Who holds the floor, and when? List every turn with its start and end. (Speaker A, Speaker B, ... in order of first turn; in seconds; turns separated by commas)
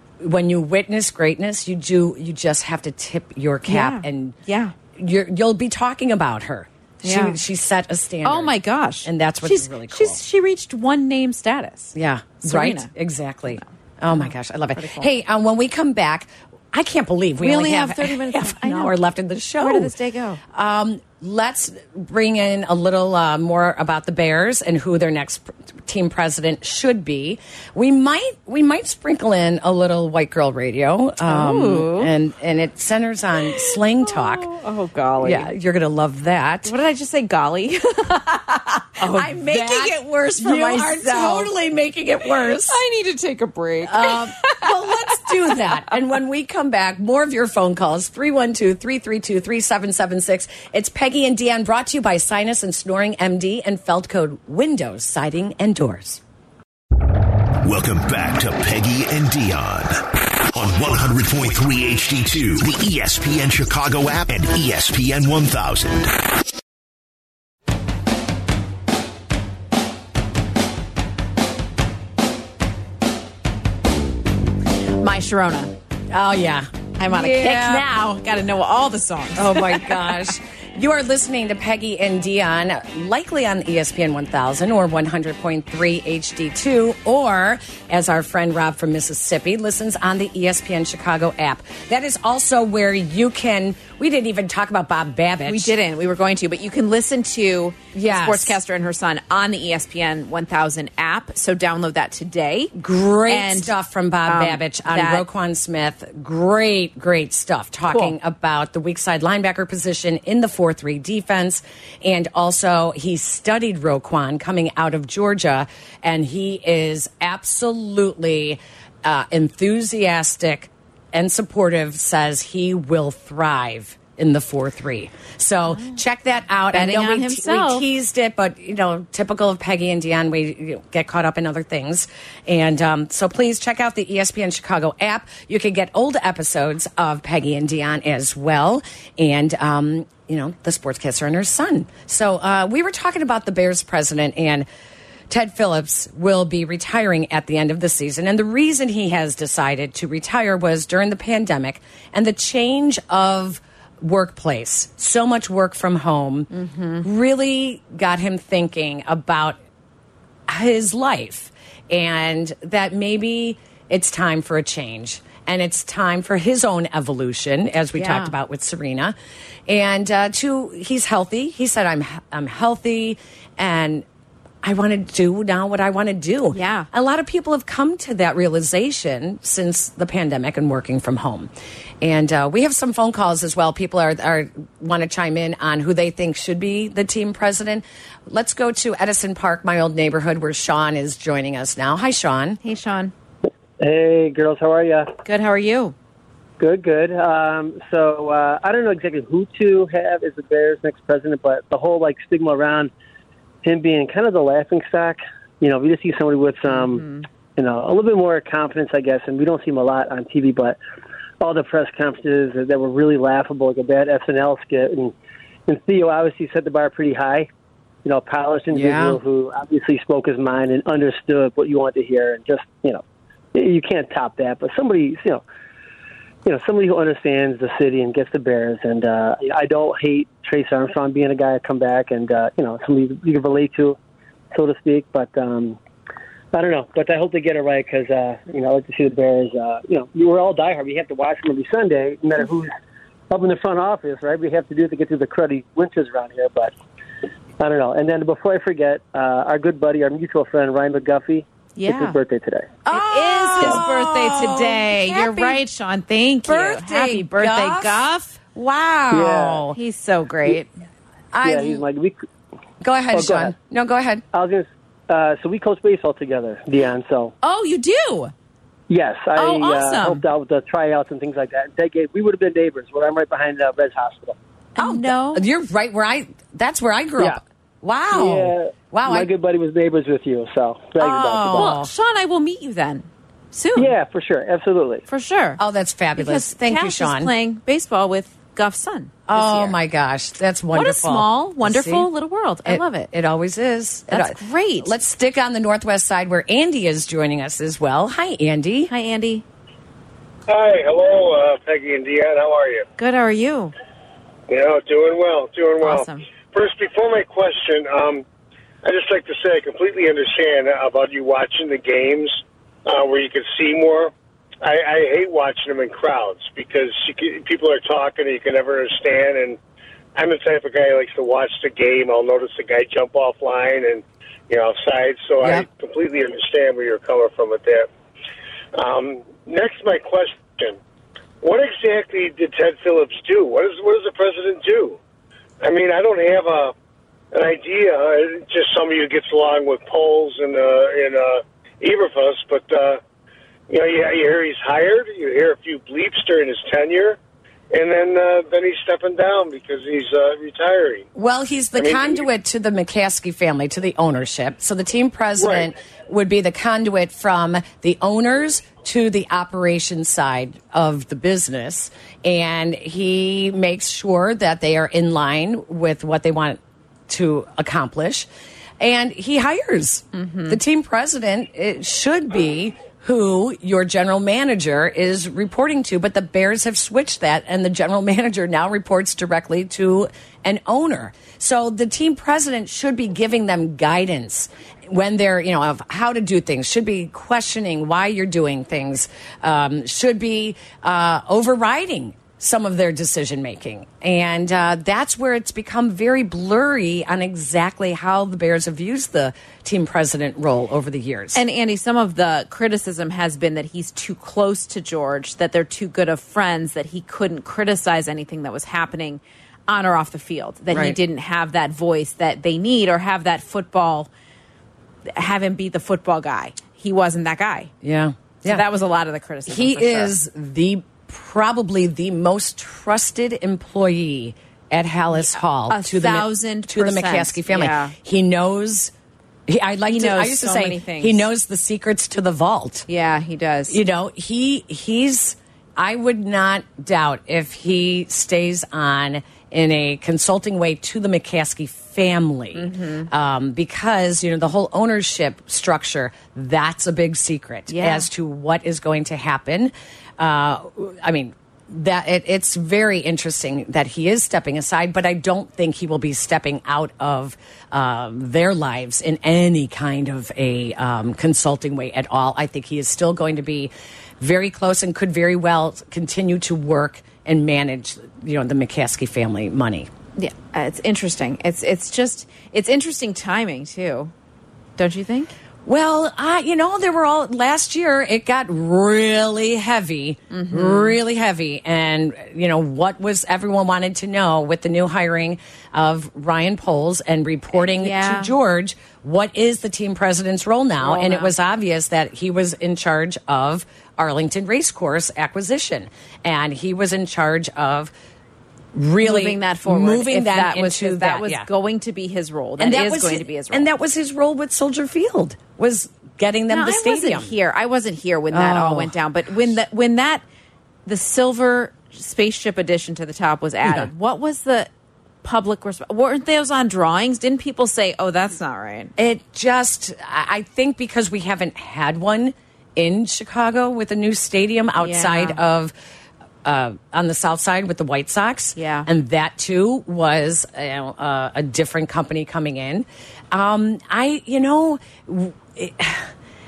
Speaker A: 0.2-4.4, Speaker B: 3.7-4.8, Speaker A: 5.0-8.5, Speaker B: 7.0-7.4, Speaker B: 8.2-12.9, Speaker A: 9.1-10.2, Speaker A: 11.9-19.9, Speaker B: 14.1-15.1, Speaker B: 17.4-18.9, Speaker B: 19.6-20.4, Speaker A: 20.5-34.5, Speaker B: 31.3-32.1, Speaker B: 33.5-35.5, Speaker A: 35.2-36.7, Speaker B: 36.7-41.5, Speaker A: 39.0-42.8, Speaker B: 42.2-45.7, Speaker A: 43.9-56.2, Speaker C: 57.6-66.1, Speaker B: 75.0-75.7, Speaker A: 76.1-77.8, Speaker B: 77.0-80.3, Speaker A: 79.4-95.7, Speaker B: 95.5-102.8, Speaker A: 97.9-98.6, Speaker A: 102.8-144.7, Speaker B: 103.3-103.7, Speaker B: 104.3-105.2, Speaker B: 107.9-108.2, Speaker B: 126.7-127.8, Speaker A: 145.3-156.5, Speaker B: 156.5-157.1, Speaker A: 157.0-159.6, Speaker A: 160.5-169.2, Speaker B: 168.0-168.3, Speaker A: 169.7-174.1, Speaker A: 174.6-181.5, Speaker B: 176.5-176.9, Speaker A: 182.0-192.6, Speaker B: 192.6-193.1, Speaker D: 193.8-195.1, Speaker B: 195.3-195.9, Speaker D: 196.6-202.9, Speaker D: 203.6-210.8, Speaker B: 206.7-207.3, Speaker D: 211.4-215.1, Speaker D: 215.7-217.5, Speaker D: 218.1-223.0, Speaker A: 218.7-219.2, Speaker D: 223.5-225.4, Speaker D: 226.4-234.0, Speaker D: 234.5-235.8, Speaker D: 236.5-242.7, Speaker D: 243.3-246.7, Speaker D: 247.6-252.7, Speaker B: 251.8-252.2, Speaker A: 252.9-255.6, Speaker B: 252.9-258.4, Speaker A: 256.5-259.8, Speaker D: 259.1-259.6, Speaker B: 259.7-260.7, Speaker A: 261.3-261.8, Speaker D: 261.4-262.2, Speaker A: 262.8-264.2, Speaker D: 263.1-263.6, Speaker D: 264.3-267.3, Speaker B: 267.4-268.3, Speaker D: 268.9-274.4, Speaker B: 269.4-270.2, Speaker B: 274.8-275.4, Speaker A: 274.8-279.3, Speaker D: 278.1-281.7, Speaker A: 281.0-281.9, Speaker B: 281.5-283.9, Speaker D: 283.8-285.1, Speaker B: 285.1-285.6, Speaker A: 285.6-287.3, Speaker B: 286.2-289.8, Speaker A: 289.3-292.1, Speaker B: 290.7-293.1, Speaker A: 292.7-298.9, Speaker B: 294.1-294.9, Speaker B: 298.9-299.4, Speaker E: 300.5-302.9, Speaker B: 303.0-303.7, Speaker E: 304.5-308.2, Speaker B: 305.8-306.3, Speaker E: 308.8-319.6, Speaker E: 320.1-327.9, Speaker E: 328.8-330.8, Speaker E: 331.4-335.0, Speaker E: 335.6-336.7, Speaker E: 337.3-343.0, Speaker E: 343.7-347.2, Speaker E: 347.7-351.1, Speaker A: 351.2-368.3, Speaker E: 351.8-352.3, Speaker E: 355.4-355.7, Speaker A: 368.8-401.4, Speaker B: 370.1-370.6, Speaker B: 401.3-414.1, Speaker A: 410.7-411.0, Speaker B: 415.1-417.7, Speaker A: 417.8-418.6, Speaker B: 418.5-420.1, Speaker A: 419.5-428.9, Speaker B: 425.3-427.9, Speaker A: 429.5-432.9, Speaker B: 429.9-431.3, Speaker B: 432.9-433.8, Speaker A: 433.7-469.9, Speaker B: 442.6-443.1, Speaker B: 447.7-448.1, Speaker B: 470.2-474.1, Speaker B: 474.8-475.3, Speaker A: 475.7-497.9, Speaker B: 480.3-481.0, Speaker B: 487.6-488.3, Speaker B: 490.8-491.3, Speaker A: 498.7-501.5, Speaker B: 499.0-503.7, Speaker A: 502.6-507.3, Speaker B: 506.5-510.2, Speaker A: 508.3-508.9, Speaker B: 510.9-514.7, Speaker A: 513.6-513.9, Speaker B: 515.2-518.9, Speaker A: 519.0-525.7, Speaker B: 524.8-525.4, Speaker A: 526.5-536.1, Speaker B: 528.6-528.9